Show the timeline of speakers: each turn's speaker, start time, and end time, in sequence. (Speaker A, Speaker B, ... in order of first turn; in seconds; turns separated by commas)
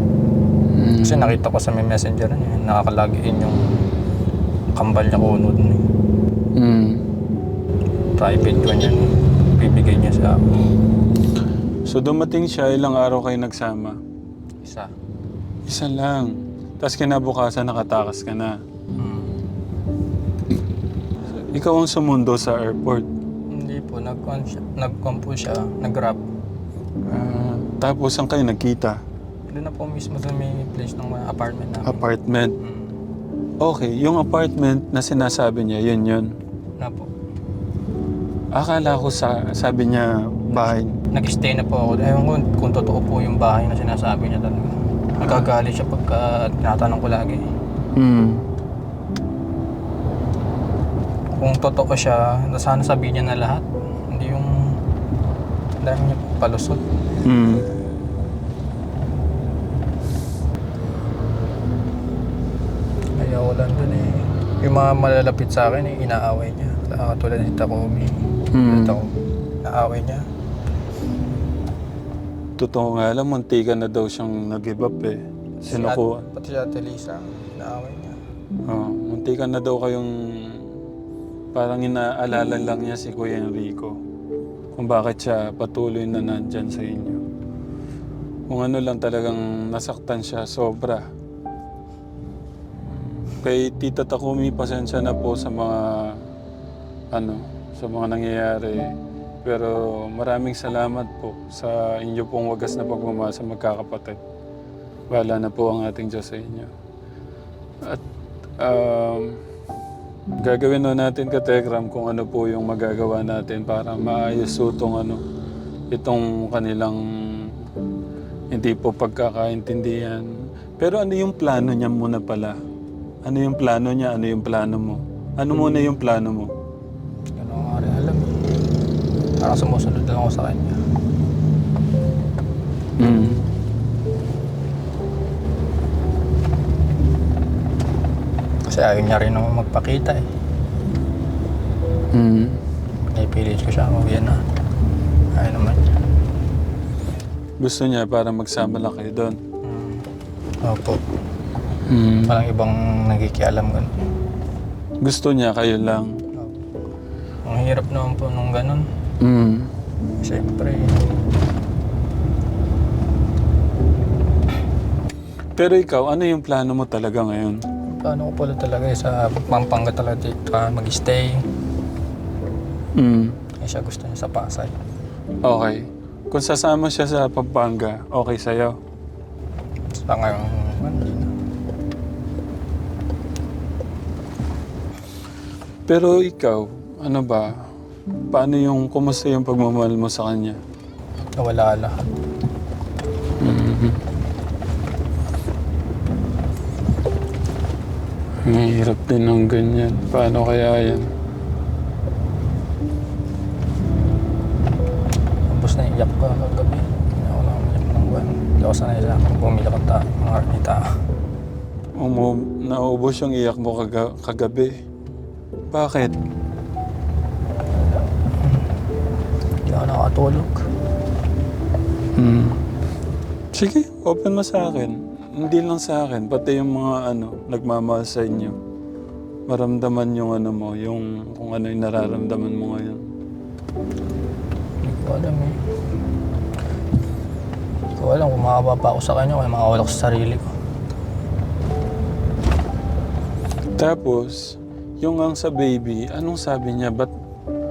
Speaker A: 0.8-1.4, Speaker B: 1.0-3.8, Speaker B: 4.8-5.9, Speaker A: 6.6-7.0, Speaker B: 8.2-10.4, Speaker A: 11.9-14.0, Speaker B: 14.6-14.9, Speaker A: 15.7-18.6, Speaker B: 19.0-19.4, Speaker A: 21.3-23.1, Speaker B: 23.5-26.2, Speaker A: 27.1-29.0, Speaker B: 29.5-32.0, Speaker A: 31.9-32.5, Speaker B: 32.6-33.0, Speaker A: 33.6-36.3, Speaker B: 36.8-37.1, Speaker A: 38.5-41.0, Speaker B: 41.1-47.4, Speaker A: 48.0-48.4, Speaker B: 51.3-54.8, Speaker B: 55.8-56.8, Speaker A: 57.2-57.7, Speaker B: 63.2-70.3, Speaker A: 68.5-69.0, Speaker A: 72.6-76.3, Speaker B: 75.6-78.2, Speaker A: 78.7-80.7, Speaker A: 81.5-83.9, Speaker A: 84.8-87.2, Speaker A: 88.5-91.0, Speaker A: 93.3-96.2, Speaker A: 97.1-98.9, Speaker A: 99.4-104.2, Speaker A: 105.1-106.7, Speaker A: 108.6-109.4, Speaker A: 110.4-115.2, Speaker A: 115.9-117.6, Speaker A: 118.5-122.6, Speaker A: 123.2-126.5, Speaker B: 127.4-128.4, Speaker B: 129.4-130.8, Speaker A: 133.0-133.4, Speaker B: 138.7-140.3, Speaker A: 142.1-142.6, Speaker B: 143.1-144.4, Speaker B: 145.3-146.0, Speaker A: 147.6-149.4, Speaker B: 149.6-150.1, Speaker B: 150.6-151.0, Speaker A: 151.9-152.4, Speaker B: 152.2-153.9, Speaker A: 155.0-156.2, Speaker B: 157.4-158.9, Speaker A: 159.2-159.7, Speaker B: 160.2-161.1, Speaker A: 165.6-167.6, Speaker B: 167.9-171.4, Speaker A: 173.0-173.4, Speaker B: 173.6-174.8, Speaker A: 175.4-178.8, Speaker B: 180.0-181.3, Speaker A: 185.9-187.7, Speaker A: 188.3-190.6, Speaker B: 191.4-192.1, Speaker A: 193.4-194.0, Speaker A: 198.4-201.1, Speaker B: 205.5-211.0, Speaker A: 212.0-214.8, Speaker A: 215.7-216.2, Speaker B: 218.4-218.7, Speaker B: 219.7-220.7, Speaker A: 222.2-222.6, Speaker A: 223.5-228.6, Speaker A: 229.5-233.1, Speaker B: 234.8-235.6, Speaker B: 238.0-240.5, Speaker A: 243.8-247.1